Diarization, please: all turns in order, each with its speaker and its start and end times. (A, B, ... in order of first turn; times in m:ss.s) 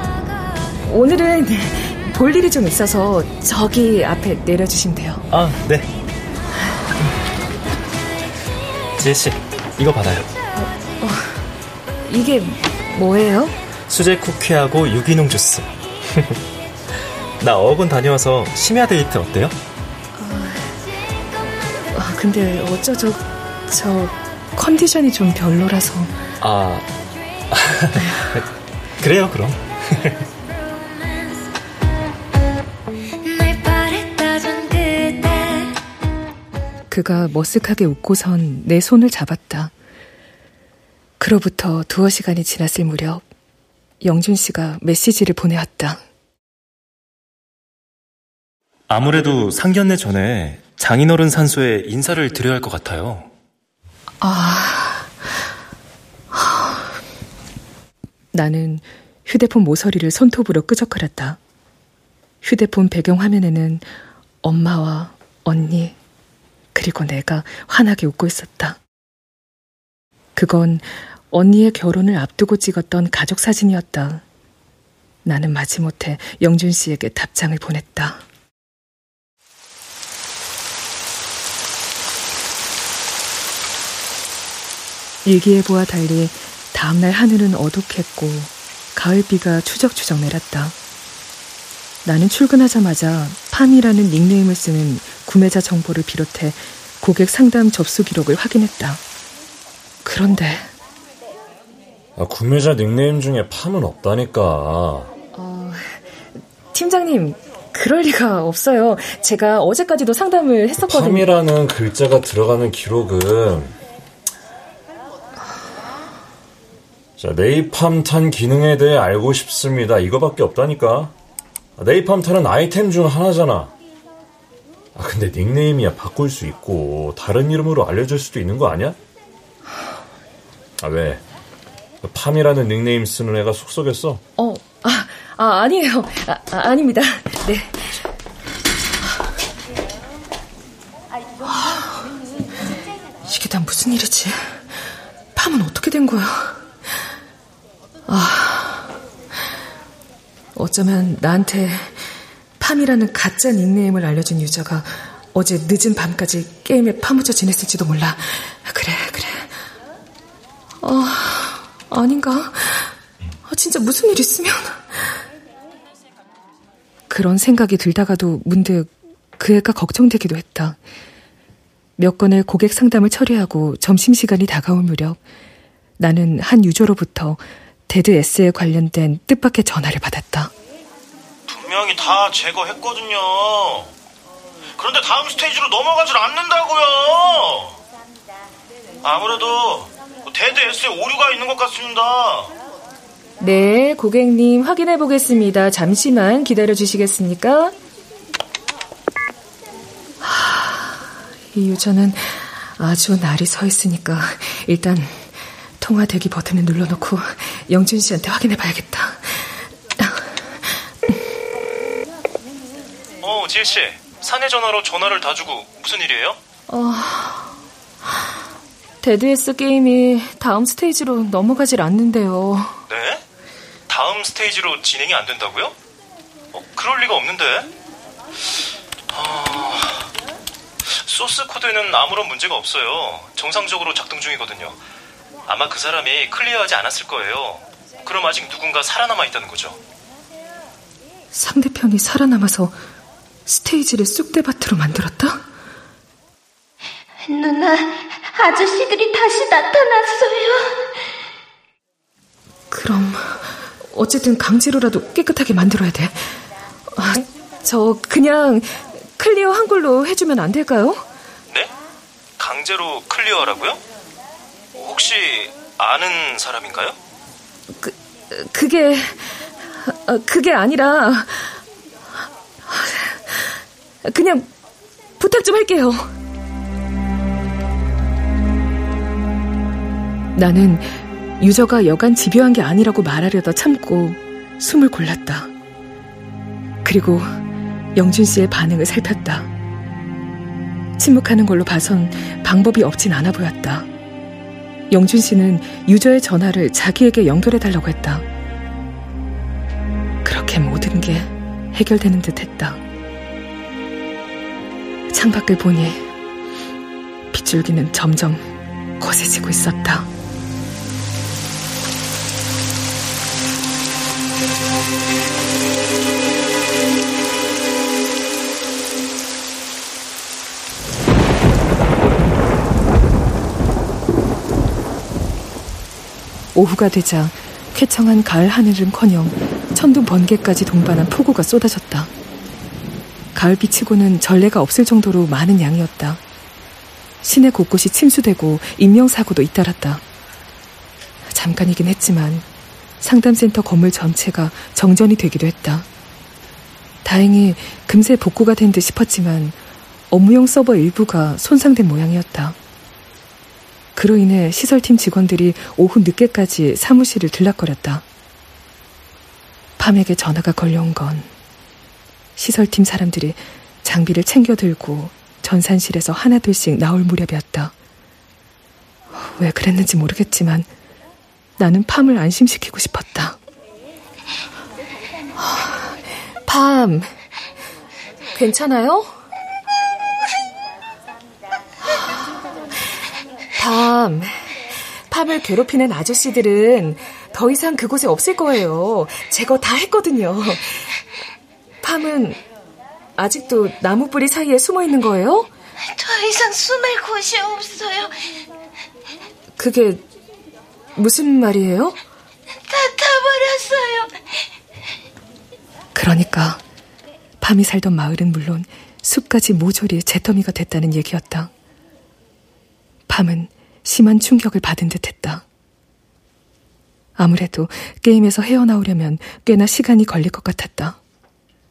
0:00.8-0:05.2 A
0:05.3-0:05.9 B
0:09.0-0:10.3 B
0:10.6-0:11.5 A
0:12.0-0:13.6 A
0:13.9-0:16.4 B
0:17.4-0:19.6 B
0:20.1-0:20.7 A
0:21.9-0:26.2 A
0:26.4-0:26.9 B
0:27.5-0:28.5 B
0:29.0-0:30.2 B
0:36.9-0:39.7 A
0:41.2-0:43.2 A
0:44.0-0:46.0 A
0:48.9-0:53.3 B
0:54.2-0:55.1 A
0:56.3-0:56.8 A
0:58.3-1:01.4 A
1:02.4-1:03.8 A
1:04.4-1:06.0 A
1:06.7-1:08.8 A
1:10.4-1:14.2 A
1:15.2-1:18.2 A
1:25.2-1:30.7 A
1:32.0-1:39.0 A
1:40.0-1:40.7 A
1:42.2-1:45.1 C
1:45.3-1:46.0 A
1:46.7-1:51.3 A
1:50.8-1:53.8 C
1:57.2-2:01.1 C
2:01.8-2:03.7 C
2:04.9-2:09.0 C
2:10.8-2:11.2 C
2:12.0-2:14.2 C
2:14.4-2:18.0 A
2:21.4-2:22.1 A
2:23.2-2:24.6 A
2:25.3-2:26.6 A
2:28.1-2:28.9 A
2:30.5-2:32.0 A
2:32.6-2:39.6 A
2:40.8-2:42.9 A
2:43.4-2:45.2 A
2:47.1-2:50.8 A
2:52.0-2:55.2 A
2:56.0-3:00.5 A
3:01.5-3:03.9 D
3:04.8-3:07.8 D
3:09.0-3:12.5 D
3:13.4-3:17.7 A
3:20.2-3:25.3 A
3:25.8-3:30.7 A
3:33.2-3:36.4 B
3:36.7-3:37.5 A
3:39.0-3:42.8 A
3:42.9-3:43.2 B
3:43.9-3:45.8 B
3:46.5-3:47.7 B
3:49.1-3:50.1 B
3:50.8-3:54.8 B
3:55.5-3:59.8 B
4:01.3-4:02.8 A
4:03.5-4:05.4 A
4:07.2-4:10.9 E
4:12.7-4:16.4 A
4:16.9-4:21.0 A
4:22.4-4:23.8 B
4:24.7-4:27.0 B
4:27.8-4:31.6 A
4:32.7-4:34.5 A
4:35.2-4:36.1 A
4:40.4-4:45.5 A
4:46.8-4:47.4 A
4:47.9-4:49.5 A
4:51.0-4:53.9 A
4:54.9-4:58.2 A
5:00.2-5:02.8 A
5:05.1-5:06.1 A
5:07.3-5:10.1 A
5:26.5-5:32.1 A
5:33.3-5:36.2 A
5:37.2-5:40.0 A
5:41.3-5:42.4 A
5:43.0-5:45.9 A
5:47.0-5:49.6 A
5:50.1-5:52.6 A
5:54.0-5:58.0 A
5:59.8-6:01.3 A
6:02.4-6:07.7 A
6:09.1-6:10.7 A
6:11.6-6:13.4 A
6:15.4-6:17.1 A
6:18.3-6:19.1 A
6:23.6-6:24.6 A
6:25.1-6:31.0 A
6:31.8-6:32.4 A
6:33.2-6:35.5 A
6:35.8-6:38.2 E
6:39.6-6:40.0 A
6:41.0-6:42.0 A
6:42.5-6:44.1 E
6:45.9-6:46.6 A
6:47.4-6:51.5 A
6:53.1-6:55.4 A
6:57.2-7:01.0 A